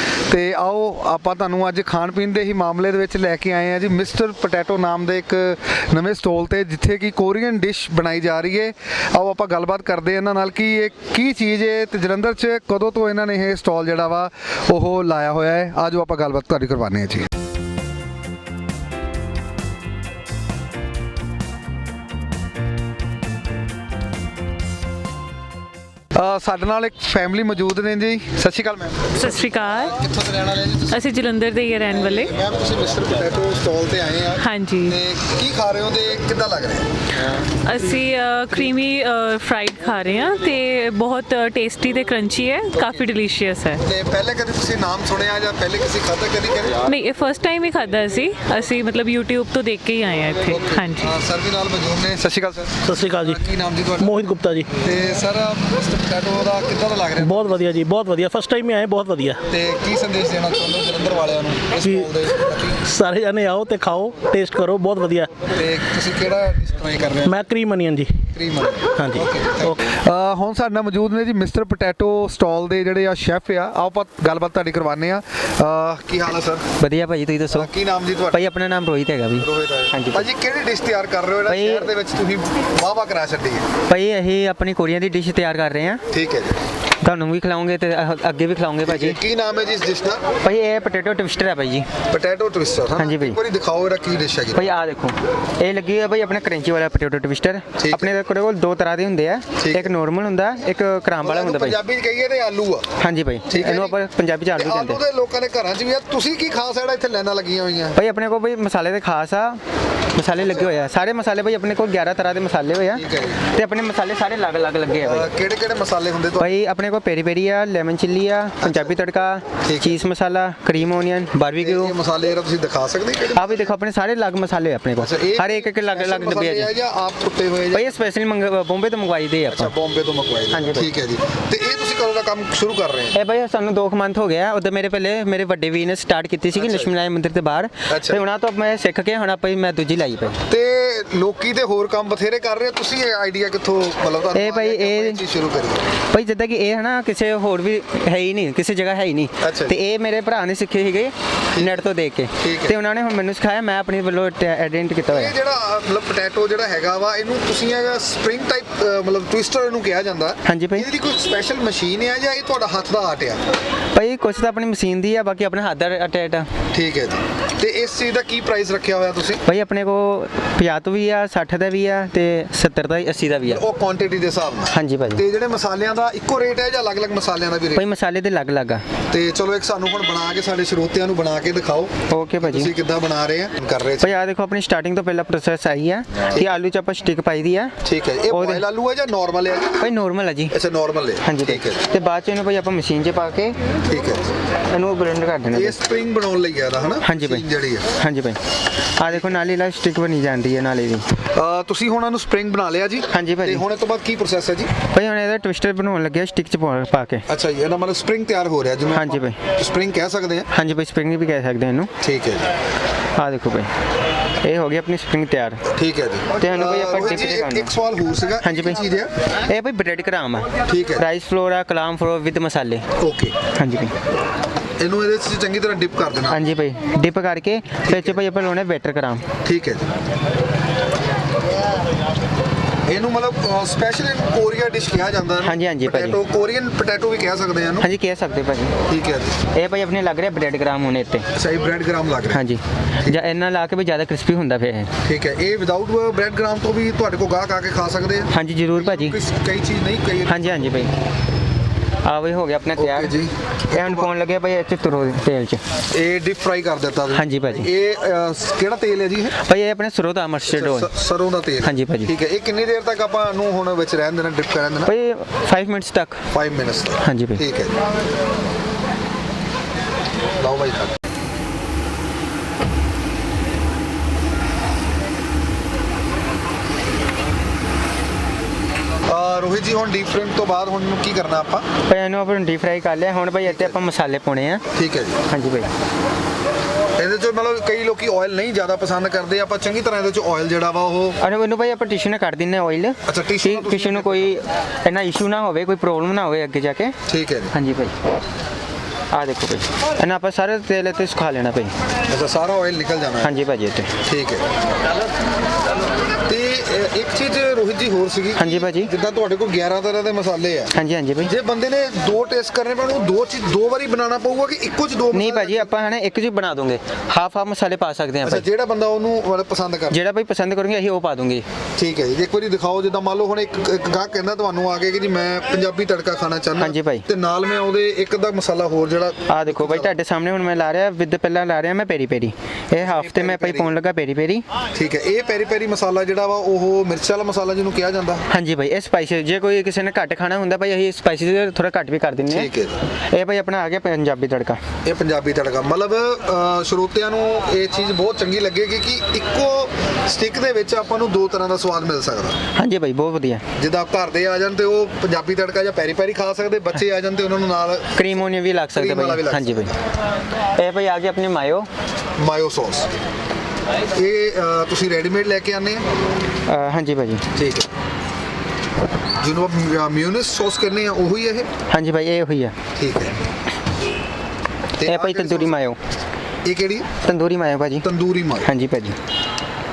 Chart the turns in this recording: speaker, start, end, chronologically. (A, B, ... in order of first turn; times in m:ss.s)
0:00.3-0:17.3 A
0:26.2-0:31.0 A
0:29.1-0:30.0 B
0:30.9-0:32.3 B
0:31.9-0:36.9 A
0:34.4-0:35.0 B
0:37.5-0:43.8 B
0:42.8-0:43.1 A
0:43.8-0:46.8 A
0:46.8-0:51.2 B
0:50.5-0:54.2 A
0:52.8-0:54.7 C
0:54.8-0:57.8 A
0:57.2-0:59.4 C
0:59.5-1:02.8 A
1:01.8-1:02.1 C
1:02.8-1:05.3 C
1:05.5-1:07.4 A
1:07.2-1:08.3 C
1:08.3-1:16.7 A
1:09.0-1:09.8 C
1:16.8-1:17.7 D
1:17.5-1:18.4 A
1:18.3-1:20.3 D
1:19.4-1:23.6 A
1:21.5-1:21.9 D
1:23.9-1:26.0 D
1:26.1-1:26.6 A
1:27.0-1:29.2 D
1:28.8-1:30.2 A
1:30.4-1:31.9 D
1:32.1-1:34.8 A
1:33.0-1:33.4 D
1:34.5-1:41.8 D
1:37.8-1:38.2 A
1:39.6-1:39.9 A
1:41.2-1:42.9 A
1:43.0-1:45.0 D
1:43.5-1:44.0 A
1:44.6-1:48.0 A
1:48.0-1:49.6 D
1:50.2-1:55.3 D
1:50.4-1:50.7 A
1:52.9-1:53.4 A
1:55.0-1:56.5 A
1:56.4-2:02.0 D
1:58.6-1:59.0 A
1:59.6-2:00.0 A
2:01.6-2:03.7 A
2:03.3-2:06.7 D
2:05.0-2:07.9 A
2:07.7-2:09.7 D
2:09.5-2:13.2 A
2:10.5-2:10.9 D
2:13.1-2:20.4 D
2:16.5-2:17.0 A
2:17.9-2:18.2 A
2:20.5-2:25.9 A
2:24.3-2:25.2 D
2:26.1-2:35.4 D
2:29.4-2:29.8 A
2:31.5-2:31.8 A
2:32.4-2:32.8 A
2:35.1-2:43.4 A
2:40.4-2:40.9 D
2:44.0-2:46.5 D
2:46.7-2:49.4 A
2:49.5-2:53.6 D
2:53.5-2:57.9 A
2:54.7-2:55.2 D
2:57.8-2:58.8 D
2:59.1-3:04.2 A
3:02.1-3:02.7 D
3:04.0-3:07.8 D
3:06.3-3:06.6 A
3:07.8-3:09.9 A
3:08.3-3:08.6 D
3:09.8-3:10.6 D
3:10.5-3:11.9 A
3:11.2-3:13.6 D
3:13.9-3:14.3 A
3:14.7-3:15.8 D
3:15.5-3:17.9 A
3:17.0-3:18.4 D
3:19.0-3:21.1 D
3:19.0-3:19.3 A
3:21.2-3:24.7 A
3:23.1-3:23.6 D
3:24.9-3:27.2 D
3:27.3-3:30.5 A
3:28.9-3:29.4 D
3:30.5-3:31.9 D
3:32.0-3:32.5 A
3:33.2-3:33.7 D
3:34.4-3:35.6 D
3:35.7-3:39.1 A
3:36.4-3:37.8 D
3:38.4-3:38.8 D
3:39.5-3:42.8 D
3:40.7-3:41.1 A
3:43.0-3:43.4 A
3:43.5-3:43.9 D
3:44.8-3:46.4 A
3:46.3-3:49.3 D
3:47.8-3:48.2 A
3:49.4-3:49.9 A
3:52.9-3:57.9 A
3:55.4-3:56.2 D
3:57.8-3:58.8 D
3:58.9-3:59.4 A
3:59.5-4:01.3 D
4:01.4-4:02.4 A
4:02.3-4:04.9 D
4:05.0-4:10.6 A
4:08.3-4:09.2 D
4:10.3-4:10.9 D
4:12.1-4:13.2 D
4:12.8-4:14.1 A
4:13.7-4:15.6 D
4:15.9-4:19.4 A
4:17.1-4:17.7 D
4:19.4-4:20.9 D
4:20.5-4:24.9 A
4:21.6-4:22.1 D
4:24.9-4:26.2 D
4:26.3-4:27.7 A
4:27.0-4:27.4 D
4:30.4-4:30.9 A
4:39.1-4:41.7 A
4:41.9-4:44.6 D
4:43.4-4:43.8 A
4:44.7-4:45.2 A
4:45.3-4:45.7 D
4:47.0-4:51.2 A
4:51.2-4:57.0 D
4:53.1-4:54.4 A
4:57.1-4:57.5 A
4:57.5-4:57.9 D
4:59.1-5:01.7 D
5:02.1-5:03.3 A
5:03.2-5:03.9 D
5:04.0-5:04.4 A
5:06.3-5:15.7 A
5:08.4-5:08.9 D
5:10.7-5:11.3 D
5:15.1-5:18.5 D
5:18.2-5:20.0 A
5:19.9-5:21.4 D
5:21.8-5:30.0 A
5:26.6-5:27.1 D
5:29.3-5:34.4 D
5:32.8-5:33.7 A
5:34.7-5:38.2 A
5:38.3-5:42.5 D
5:42.3-5:42.8 A
5:43.1-5:44.6 D
5:44.8-5:52.4 A
5:52.6-5:53.4 D
5:53.6-5:58.2 A
5:58.0-5:59.7 D
5:58.7-5:59.8 A
6:00.6-6:01.7 D
6:02.2-6:02.9 A
6:03.9-6:05.8 A
6:06.5-6:07.2 D
6:07.4-6:07.7 A
6:09.2-6:11.5 A
6:11.7-6:12.6 D
6:12.8-6:13.2 A
6:14.8-6:15.6 A
6:14.8-6:15.8 D
6:16.4-6:16.9 A
6:17.0-6:17.9 D
6:17.8-6:18.5 A
6:18.4-6:19.0 D